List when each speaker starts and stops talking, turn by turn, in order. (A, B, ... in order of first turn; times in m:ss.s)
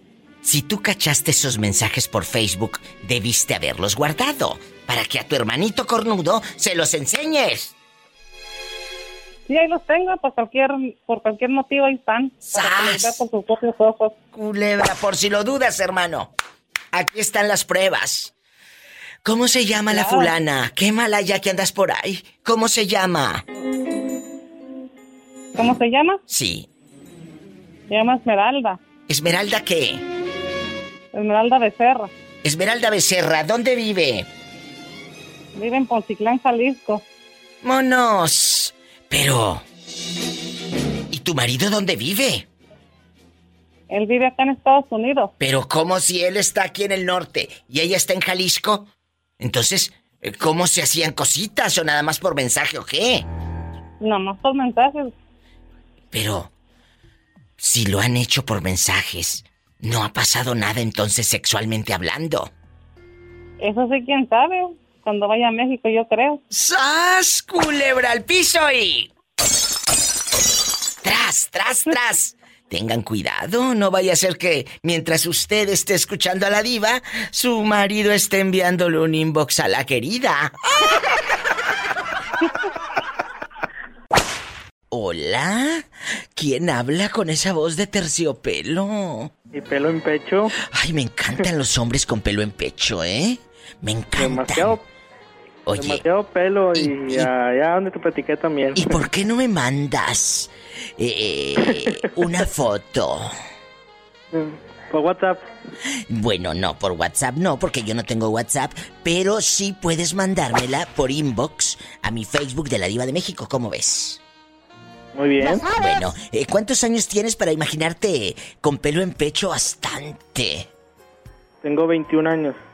0:00.4-0:07.7 A
0:09.5-0:14.1 B
0:12.4-0:13.2 A
0:14.3-0:16.3 A
0:16.9-0:18.3 A
0:19.2-0:23.4 A
0:19.9-0:20.3 B
0:25.6-0:26.2 B
0:26.3-0:26.7 A
0:27.9-0:28.8 B
0:29.1-0:30.0 A
0:31.1-0:32.1 B
0:32.4-0:34.3 A
0:35.6-0:37.0 B
0:37.6-0:39.6 A
0:41.1-0:42.4 A
0:43.9-0:45.3 B
0:45.4-0:48.9 A
0:49.4-0:53.2 A
0:54.0-0:55.1 B
0:56.1-0:56.5 A
0:57.6-1:02.5 A
1:03.6-1:06.4 B
1:06.5-1:09.1 A
1:11.0-1:20.5 A
1:24.9-1:29.3 A
1:29.5-1:30.5 C
1:30.6-1:34.8 A
1:34.2-1:34.8 C
1:35.6-1:36.0 A
1:35.8-1:38.8 C
1:36.7-1:37.3 A
1:38.7-1:43.3 A
1:44.3-1:45.4 C
1:46.1-1:54.2 A
1:55.1-1:55.7 C
1:55.7-2:00.7 A
2:01.6-2:02.6 C